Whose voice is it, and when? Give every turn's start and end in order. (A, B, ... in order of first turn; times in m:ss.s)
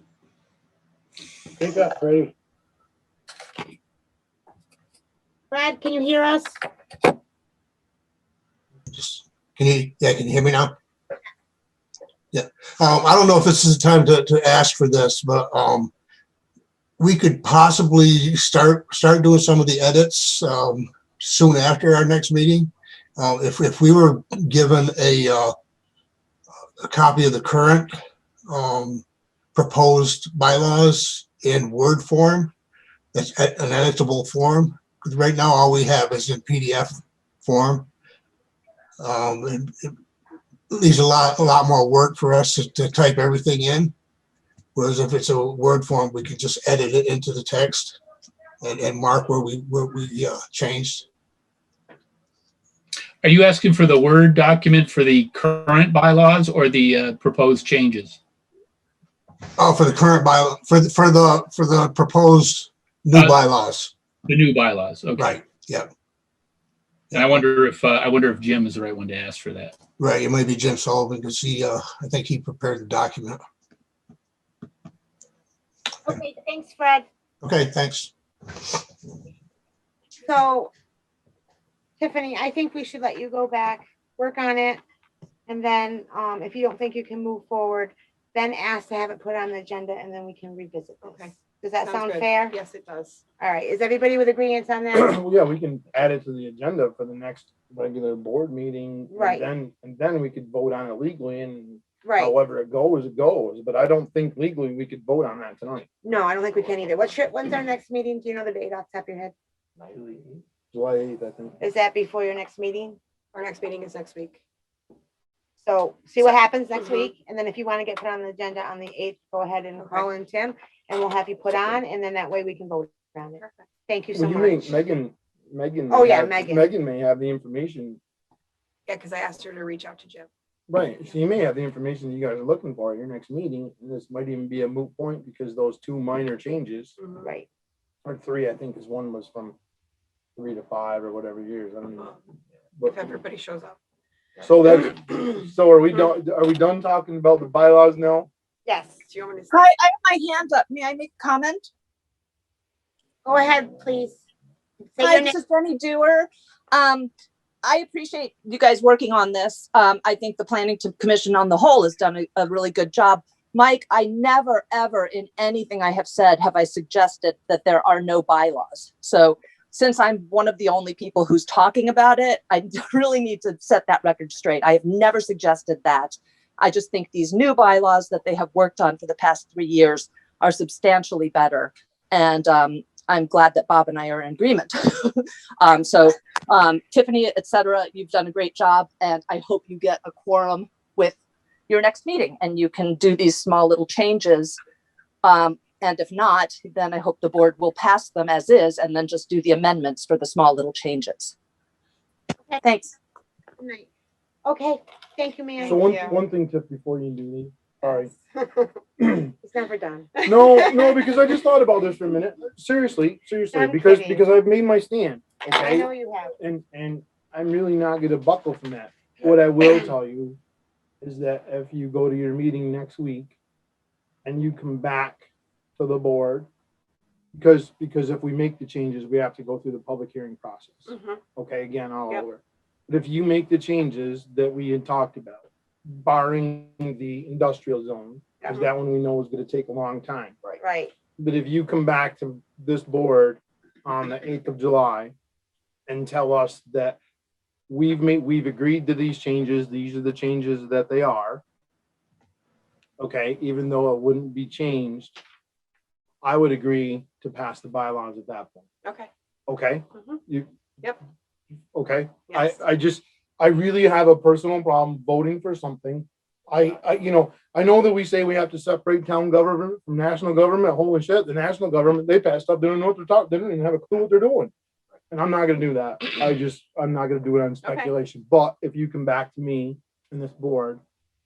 0:01.6-0:02.3 A
0:05.5-0:06.5 B
0:08.9-0:10.7 C
0:12.3-0:15.9 C
0:17.0-0:25.5 C
0:26.8-0:27.9 C
0:28.5-0:29.0 C
0:29.6-0:32.5 C
0:33.1-0:37.9 C
0:39.0-0:39.9 C
0:40.7-0:43.9 C
0:44.8-0:48.0 C
0:48.6-0:51.0 C
0:53.2-0:58.2 D
0:59.6-1:03.9 C
1:03.2-1:03.4 D
1:04.3-1:05.4 D
1:05.2-1:05.9 C
1:07.1-1:09.8 D
1:10.0-1:13.4 C
1:16.0-1:17.0 B
1:17.4-1:18.7 C
1:20.2-1:20.7 B
1:22.0-1:24.8 B
1:25.5-1:32.6 B
1:31.0-1:31.3 E
1:31.8-1:33.2 E
1:33.4-1:35.2 B
1:34.9-1:45.9 A
1:39.1-1:39.5 B
1:42.0-1:42.3 B
1:46.0-1:49.3 B
1:50.7-1:51.6 A
1:51.6-1:53.0 B
1:53.3-1:54.4 E
1:55.6-2:04.7 B
1:59.8-2:00.1 E
2:03.4-2:03.6 E
2:04.1-2:08.0 A
2:05.9-2:06.7 B
2:08.9-2:10.3 E
2:10.7-2:17.0 A
2:17.0-2:17.3 E
2:18.0-2:19.6 A
2:20.4-2:22.1 A
2:22.8-2:23.1 A
2:22.8-2:23.8 E
2:24.4-2:28.3 A
2:28.7-2:29.0 B
2:29.1-2:29.5 E
2:29.5-2:31.7 F
2:33.2-2:34.2 B
2:34.9-2:35.4 B
2:35.0-2:37.1 F
2:37.6-3:11.2 F
3:11.7-3:14.6 F
3:15.2-3:21.3 F
3:22.6-3:23.0 F
3:23.6-3:23.9 B
3:24.4-3:26.1 B
3:25.6-3:28.1 A
3:25.7-3:26.2 E
3:29.0-3:29.3 A
3:29.4-3:30.2 B
3:30.2-3:40.4 A
3:33.5-3:34.2 B
3:35.5-3:36.3 B
3:41.0-3:43.3 A
3:44.2-3:45.2 A
3:45.8-3:46.5 A
3:47.3-4:00.6 A
3:50.9-3:51.2 E
3:58.4-3:58.7 E
4:00.6-4:00.9 B
4:01.2-4:05.1 A
4:05.9-4:07.0 A
4:07.7-4:11.4 A
4:13.0-4:15.2 A
4:16.2-4:18.7 A
4:19.5-4:20.5 A
4:19.9-4:20.2 E
4:21.7-4:34.5 A
4:22.3-4:22.6 E
4:35.1-4:40.8 A
4:37.6-4:37.9 E